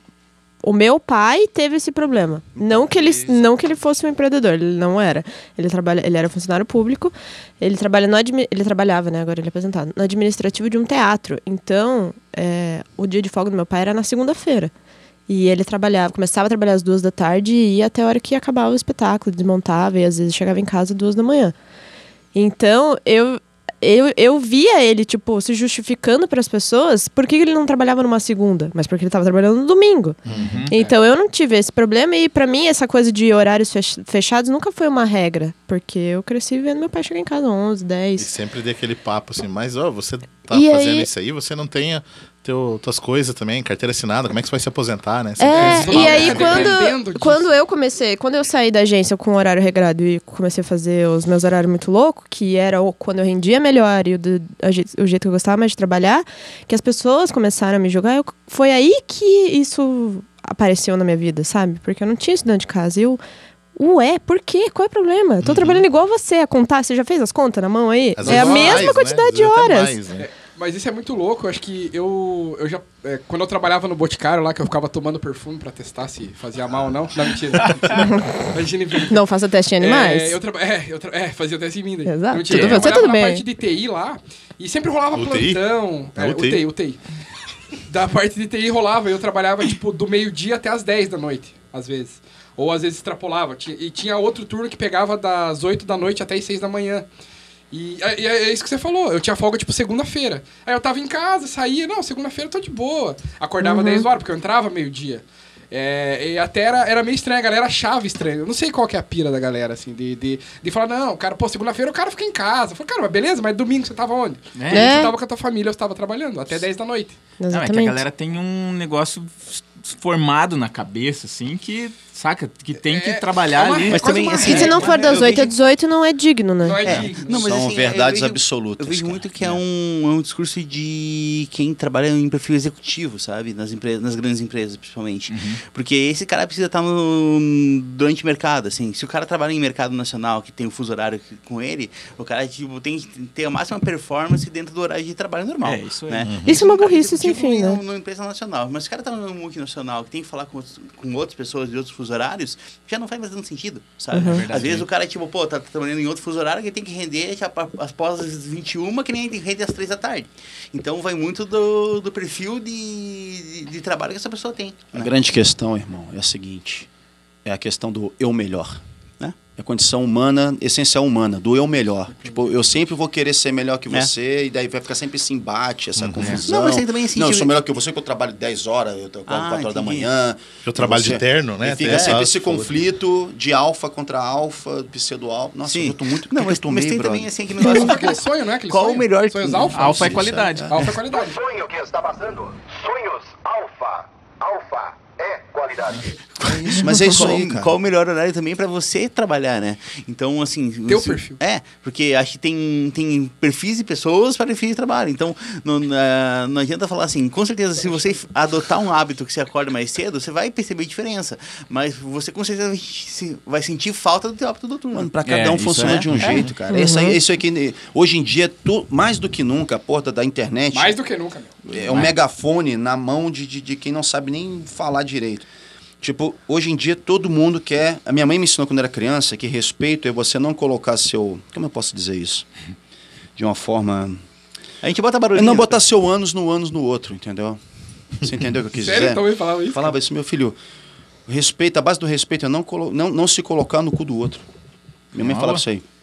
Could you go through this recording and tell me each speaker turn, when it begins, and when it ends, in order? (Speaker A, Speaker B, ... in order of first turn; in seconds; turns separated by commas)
Speaker A: 0.6-14.7, Speaker B: 2.6-3.4, Speaker A: 15.3-21.5, Speaker A: 22.3-30.2, Speaker C: 30.2-30.7, Speaker D: 30.3-30.7, Speaker A: 30.7-38.3, Speaker C: 38.2-46.7, Speaker A: 40.5-41.1, Speaker A: 45.4-63.2, Speaker E: 45.6-47.5, Speaker A: 63.8-70.0, Speaker C: 65.4-65.8, Speaker C: 68.2-70.3, Speaker E: 68.2-68.9, Speaker E: 70.2-79.2, Speaker C: 77.6-77.8, Speaker D: 77.6-77.9, Speaker A: 78.0-78.3, Speaker A: 79.1-80.4, Speaker E: 79.8-87.0, Speaker A: 82.0-83.4, Speaker D: 82.5-82.8, Speaker C: 85.1-86.6, Speaker E: 87.8-97.1, Speaker E: 97.7-117.2, Speaker A: 103.6-104.0, Speaker D: 114.5-115.1, Speaker A: 114.7-115.1, Speaker A: 117.4-118.0, Speaker D: 117.5-124.7, Speaker E: 122.9-125.4, Speaker F: 123.9-125.5, Speaker A: 124.4-126.8, Speaker E: 126.6-127.5, Speaker F: 126.8-165.1, Speaker B: 126.8-129.6, Speaker D: 135.3-135.6, Speaker D: 145.6-146.3, Speaker C: 146.2-146.6, Speaker A: 146.4-147.8, Speaker A: 154.1-154.4, Speaker D: 154.2-154.9, Speaker B: 164.9-166.9, Speaker B: 167.4-168.8, Speaker B: 169.4-187.9, Speaker C: 175.9-176.4, Speaker F: 176.3-177.5, Speaker F: 179.3-180.1, Speaker C: 180.6-182.8, Speaker F: 181.8-182.2, Speaker F: 185.6-190.3, Speaker E: 187.6-190.2, Speaker D: 189.7-191.0, Speaker B: 189.7-190.9, Speaker E: 190.7-191.5, Speaker G: 191.5-195.8, Speaker F: 195.9-215.1, Speaker B: 196.4-197.7, Speaker E: 200.9-201.4, Speaker B: 214.9-221.0, Speaker D: 215.2-216.5, Speaker C: 216.2-216.5, Speaker A: 216.7-217.2, Speaker E: 220.7-221.5, Speaker B: 221.7-225.5, Speaker D: 221.8-222.1, Speaker B: 226.0-232.4, Speaker B: 233.3-234.2, Speaker F: 234.8-235.8, Speaker B: 235.3-237.6, Speaker B: 238.2-240.6, Speaker E: 238.8-239.9, Speaker B: 241.3-244.4, Speaker B: 245.1-245.8, Speaker D: 245.2-245.6